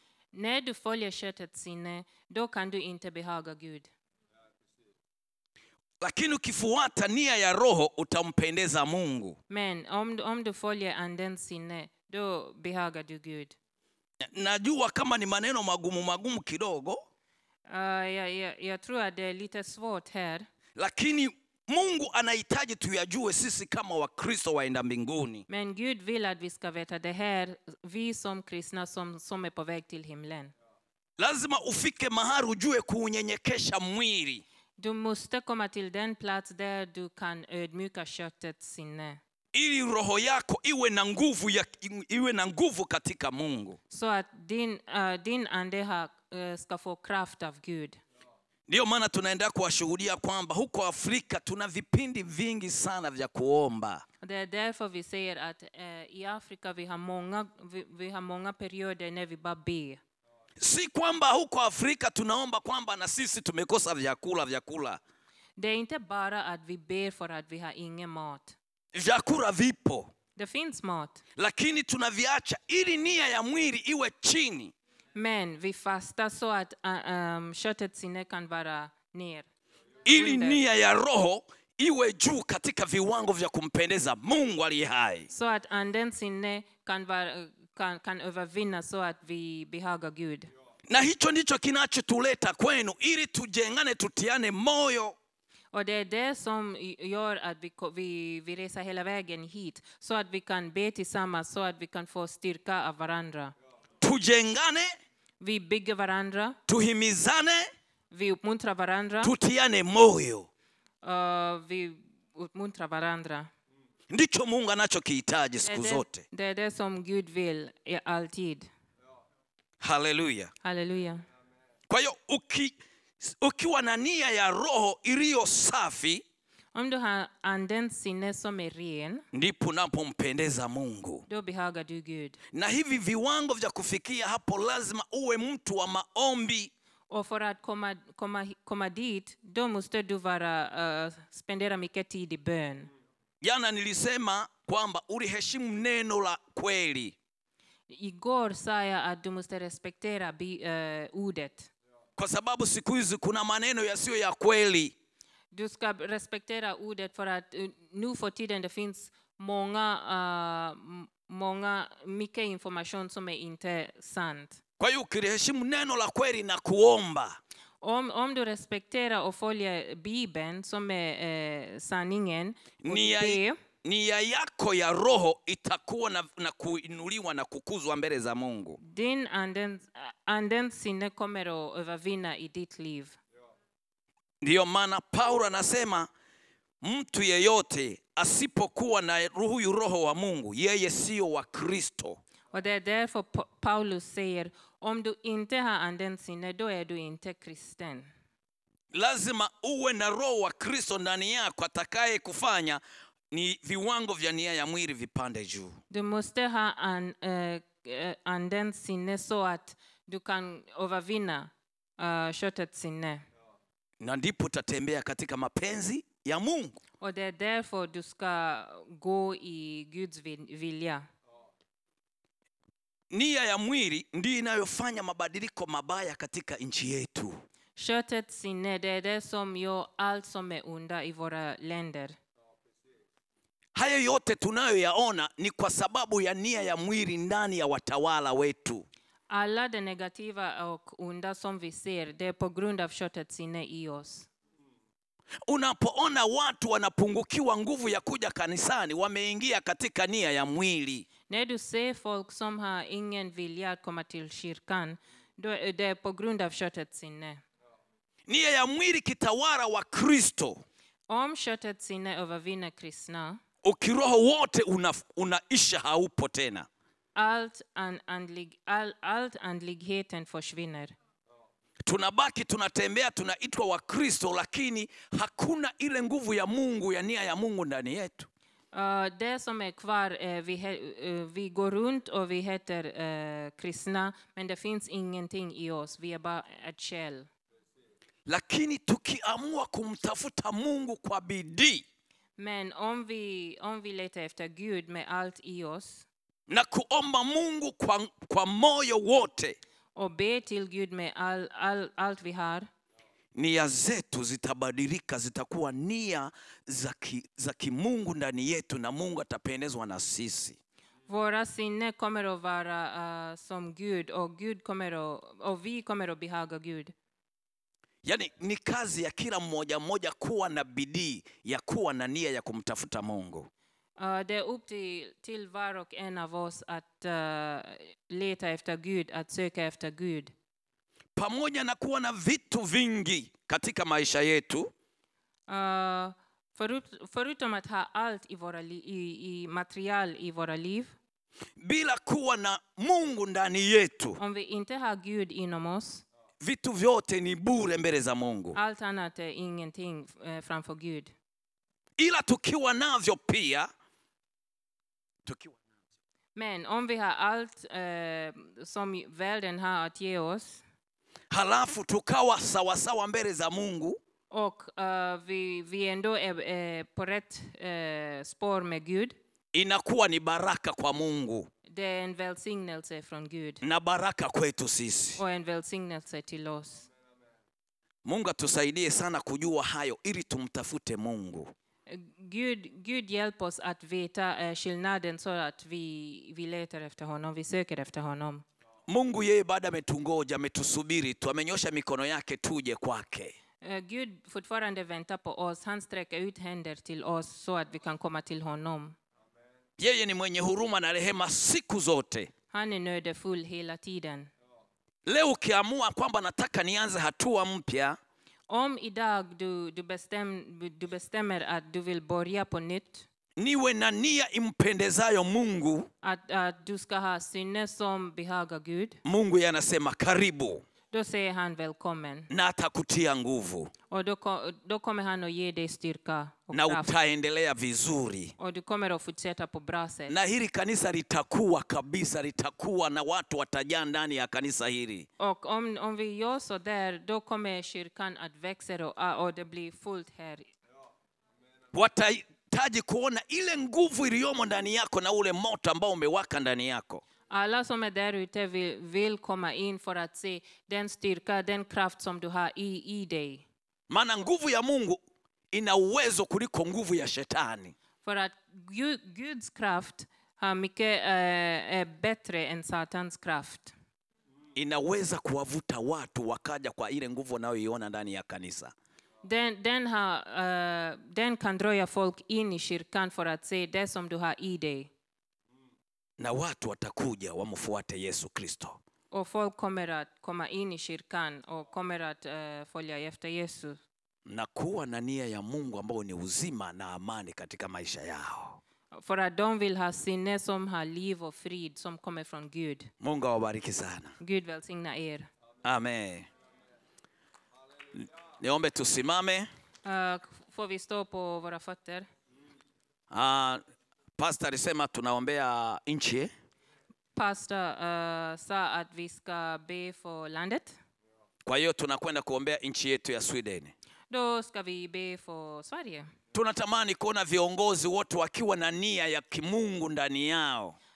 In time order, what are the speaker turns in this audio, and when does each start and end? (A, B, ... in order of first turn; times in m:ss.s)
0:00.3-0:03.9 A
0:06.0-0:09.4 B
0:09.5-0:13.6 A
0:14.2-0:17.0 B
0:17.7-0:20.5 A
0:20.8-0:25.4 B
0:25.5-0:30.5 A
0:31.2-0:34.4 B
0:34.8-0:39.2 A
0:39.5-0:43.8 B
0:43.9-0:48.0 A
0:48.7-0:54.0 B
0:54.2-1:00.0 A
1:00.6-1:05.0 B
1:05.6-1:08.6 A
1:08.9-1:10.1 B
1:10.4-1:11.2 A
1:11.4-1:14.7 B
1:15.1-1:19.5 A
1:20.1-1:25.3 B
1:20.1-1:20.6 A
1:25.3-1:30.5 A
1:30.9-1:35.1 B
1:35.7-1:43.5 A
1:44.0-1:44.9 B
1:45.4-1:46.6 A
1:46.7-1:47.7 B
1:48.1-1:49.3 A
1:49.2-1:50.5 B
1:51.0-1:53.5 A
1:54.1-1:56.2 B
1:55.6-1:58.7 A
1:59.8-2:00.5 B
2:00.6-2:01.2 A
2:01.9-2:06.2 B
2:06.7-2:09.2 A
2:09.3-2:11.2 B
2:11.3-2:12.4 A
2:12.5-2:16.7 B
2:17.1-2:22.9 A
2:23.4-2:27.1 B
2:27.9-2:31.7 A
2:32.2-2:34.9 B
2:35.5-2:44.6 A
2:44.8-2:47.4 B
2:47.8-2:53.6 A
2:52.8-2:58.8 B
2:58.8-3:03.2 A
3:04.4-3:06.1 B
3:06.8-3:12.2 B
3:12.5-3:18.1 A
3:18.9-3:25.8 B
3:25.9-3:33.2 A
3:34.0-3:36.8 B
3:37.0-3:41.0 A
3:43.1-3:47.4 B
3:47.8-3:52.2 A
3:53.7-3:58.9 B
3:59.3-4:04.3 A
4:05.5-4:11.0 B
4:11.3-4:17.4 A
4:18.3-4:20.6 B
4:21.1-4:23.4 A
4:23.6-4:26.7 B
4:27.2-4:30.9 A
4:31.9-4:38.3 B
4:38.7-4:47.3 A
4:48.3-4:51.8 B
4:52.4-4:56.0 A
4:56.5-4:59.6 B
5:00.0-5:02.7 A
5:03.4-5:10.6 B
5:11.1-5:16.9 A
5:18.0-5:23.5 B
5:24.0-5:30.3 A
5:31.2-5:34.7 B
5:35.5-5:40.9 A
5:41.6-5:44.2 B
5:44.2-5:46.0 A
5:46.4-5:48.6 B
5:48.6-5:51.1 A
5:52.0-5:53.7 B
5:55.2-5:55.6 B
5:56.3-6:00.6 A
6:01.3-6:04.0 B
6:04.3-6:09.2 A
6:09.5-6:11.5 B
6:11.7-6:13.6 A
6:13.6-6:15.2 B
6:15.2-6:16.9 A
6:18.0-6:21.5 B
6:21.9-6:28.4 A
6:28.9-6:33.3 B
6:33.6-6:38.9 A
6:39.8-6:42.3 B
6:42.5-6:44.3 A
6:45.0-6:48.0 B
6:48.5-6:53.0 A
6:53.4-6:55.9 B
6:56.0-6:59.0 A
6:59.0-7:00.6 B
7:00.9-7:02.3 A
7:02.3-7:03.7 B
7:03.9-7:06.9 A
7:06.5-7:08.3 B
7:08.4-7:10.1 A
7:10.1-7:15.1 B
7:15.2-7:20.5 A
7:21.7-7:27.0 B
7:27.3-7:33.4 A
7:33.9-7:35.0 B
7:35.5-7:37.7 B
7:38.0-7:43.7 A
7:44.6-7:48.7 B
7:49.2-7:54.9 A
7:56.2-7:58.8 B
7:59.1-8:03.8 A
8:04.3-8:08.6 B
8:08.9-8:12.9 A
8:13.0-8:14.1 B
8:14.2-8:15.3 A
8:15.6-8:16.3 B
8:18.0-8:19.5 B
8:19.8-8:22.1 A
8:23.1-8:23.6 B
8:24.2-8:26.3 B
8:27.2-8:30.8 A
8:31.4-8:33.7 B
8:34.1-8:36.1 A
8:36.3-8:40.8 B